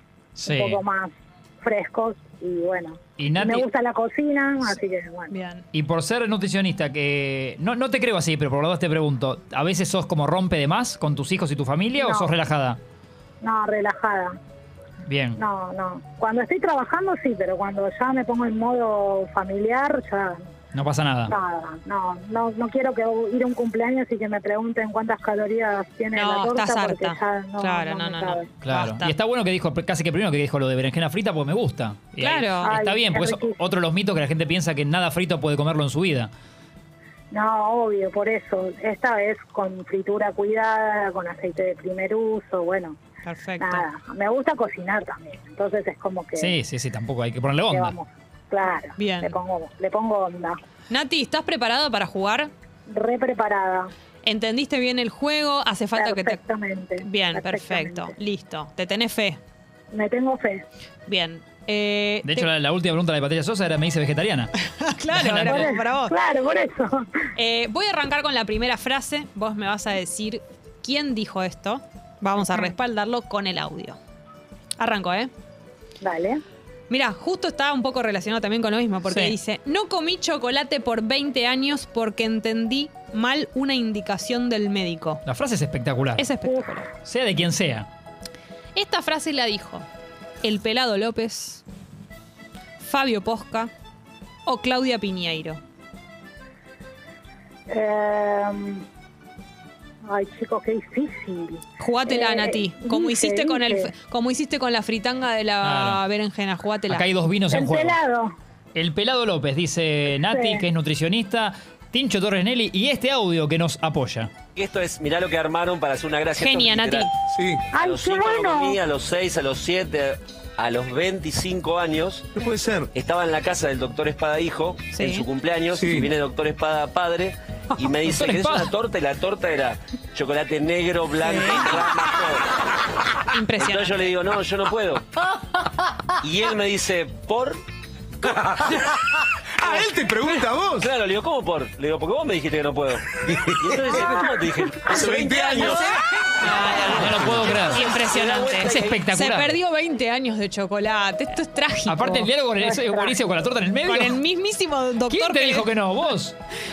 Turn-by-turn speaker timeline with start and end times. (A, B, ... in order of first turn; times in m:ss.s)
0:00.4-0:00.8 A
0:00.4-0:01.1 B
0:01.6-0:05.3 B
0:03.2-0:03.7 A
0:05.3-0:05.6 C
0:05.7-0:12.8 A
0:12.0-0:12.3 B
0:13.4-0:14.4 B
0:15.1-0:15.4 A
0:15.4-0:20.4 B
0:20.7-0:21.3 A
0:21.3-0:28.5 B
0:26.1-0:29.1 C
0:28.6-0:36.3 A
0:32.2-0:32.8 C
0:32.6-0:33.6 B
0:37.3-0:43.0 B
0:43.2-0:43.8 C
0:43.6-0:46.5 B
0:46.4-0:48.0 A
0:47.7-0:50.6 B
0:49.0-0:49.4 C
0:50.9-0:52.5 C
0:52.9-0:53.9 B
0:54.2-0:56.4 C
0:55.9-0:58.1 B
0:57.0-0:59.4 C
0:59.9-1:00.6 B
1:01.1-1:02.5 C
1:02.2-1:04.5 A
1:04.8-1:06.1 C
1:05.1-1:05.8 A
1:05.4-1:07.0 B
1:07.4-1:14.0 C
1:14.8-1:15.3 C
1:16.0-1:16.4 B
1:16.9-1:25.2 C
1:25.3-1:26.3 A
1:26.2-1:26.9 C
1:27.0-1:27.9 A
1:28.8-1:29.9 C
1:30.4-1:31.6 C
1:32.8-1:33.7 C
1:34.5-1:35.6 C
1:37.7-1:38.8 B
1:40.1-1:43.9 B
1:41.8-1:47.0 C
1:45.6-1:46.0 A
1:46.9-1:48.0 A
1:47.5-1:48.3 B
1:48.8-1:54.3 A
1:50.2-1:50.6 B
1:54.6-1:57.1 D
1:56.4-1:57.1 C
1:57.7-2:12.5 D
1:57.7-1:58.8 B
2:04.9-2:05.3 C
2:08.0-2:08.7 A
2:11.2-2:11.8 C
2:13.3-2:14.1 C
2:13.6-2:15.0 D
2:16.2-2:17.6 D
2:19.6-2:20.8 E
2:20.6-2:25.8 D
2:24.9-2:25.7 E
2:25.5-2:32.3 C
2:26.4-2:27.9 A
2:27.0-2:28.9 D
2:28.7-2:29.6 A
2:31.9-2:34.2 A
2:32.6-2:33.2 B
2:33.8-2:35.8 C
2:35.1-2:36.4 A